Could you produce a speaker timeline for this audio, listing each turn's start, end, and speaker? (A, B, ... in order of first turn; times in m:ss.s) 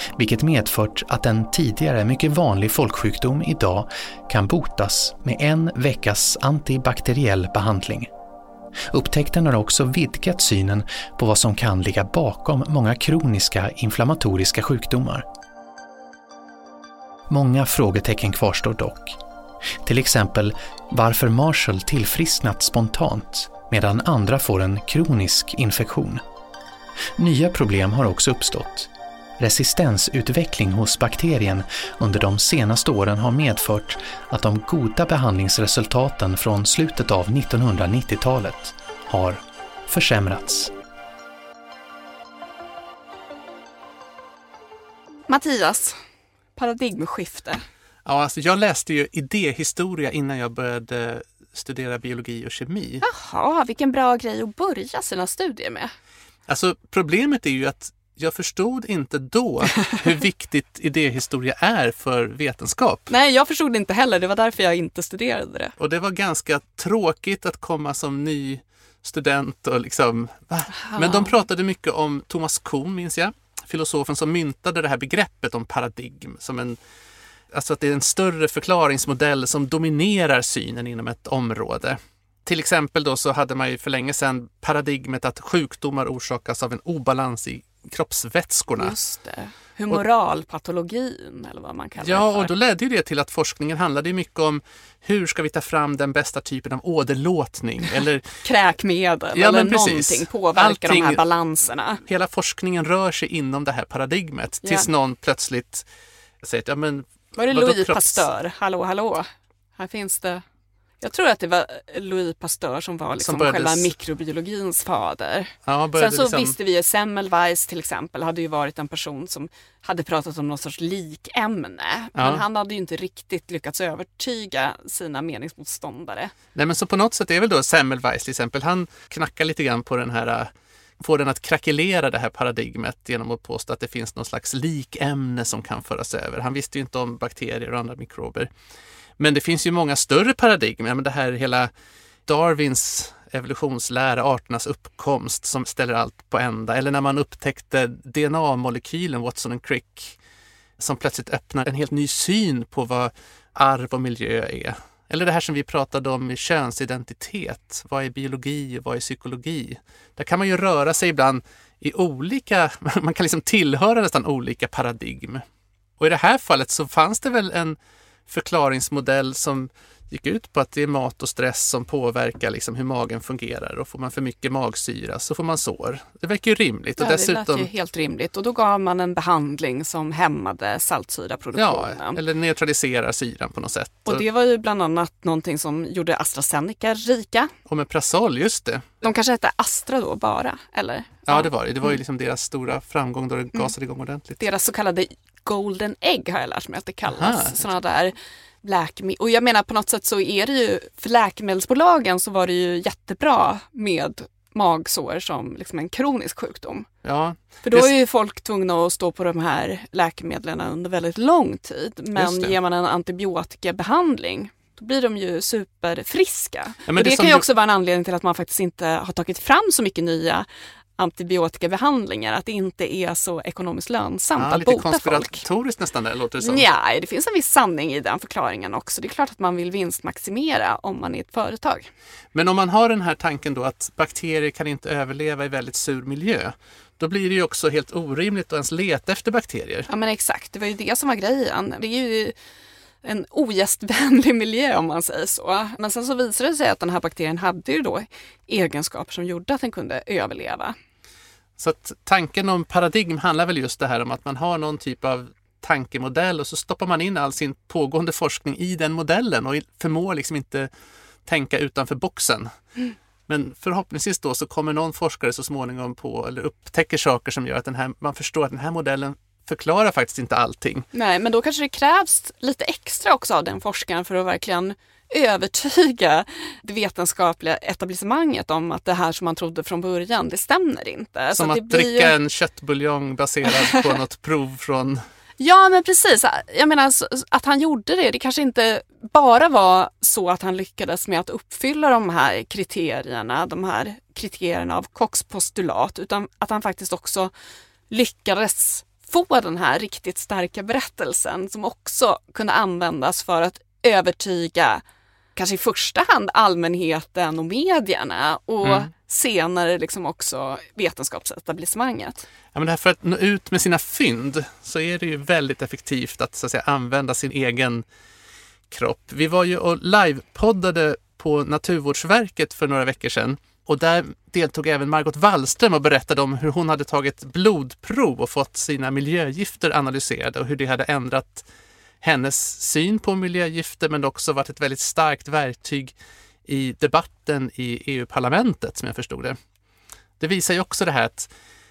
0:00.1-0:08.1 A
0:08.9-0:15.2 A
0:17.3-0:19.2 A
0:19.8-0:26.2 A
0:27.2-0:40.7 A
0:45.3-0:46.0 B
0:46.6-0:47.6 B
0:48.0-0:53.0 C
0:53.0-0:55.9 B
0:56.5-1:03.1 C
1:03.1-1:05.7 B
1:05.8-1:16.8 C
1:10.8-1:11.3 B
1:17.5-1:28.9 C
1:28.8-1:32.5 B
1:32.0-1:38.2 C
1:38.4-1:42.0 B
1:39.3-1:41.2 C
1:42.0-1:45.8 C
1:46.4-1:48.2 C
1:47.4-1:50.4 B
1:51.0-2:06.3 B
1:53.2-1:53.9 C
1:55.6-1:56.5 C
2:02.2-2:02.4 C
2:06.5-2:18.5 C
2:19.2-2:21.7 C
2:22.2-2:30.2 C
2:30.8-2:45.4 C
2:46.0-2:47.8 C
2:48.3-2:57.7 C
2:57.0-3:02.2 B
3:01.6-3:04.2 C
3:04.0-3:07.5 B
3:07.7-3:08.9 C
3:09.0-3:11.5 B
3:11.3-3:14.4 C
3:14.4-3:26.9 B
3:17.1-3:17.6 C
3:27.0-3:27.9 C
3:27.6-3:40.4 B
3:32.1-3:32.6 C
3:36.9-3:37.4 C
3:41.0-3:45.4 B
3:44.4-3:46.7 C
3:46.4-3:51.9 B
3:52.3-3:59.9 C
3:59.9-4:02.3 B
4:03.0-4:10.7 B
4:11.6-4:20.7 C
4:21.2-4:22.5 C
4:23.3-4:30.9 C
4:30.9-4:42.1 B
4:41.3-4:45.0 C
4:45.4-4:57.3 B
4:57.9-5:04.8 B
5:05.4-5:12.2 B
5:12.5-5:17.8 C
5:18.7-5:31.4 C
5:32.0-5:35.9 C
5:36.4-5:39.4 C
5:40.2-5:41.3 C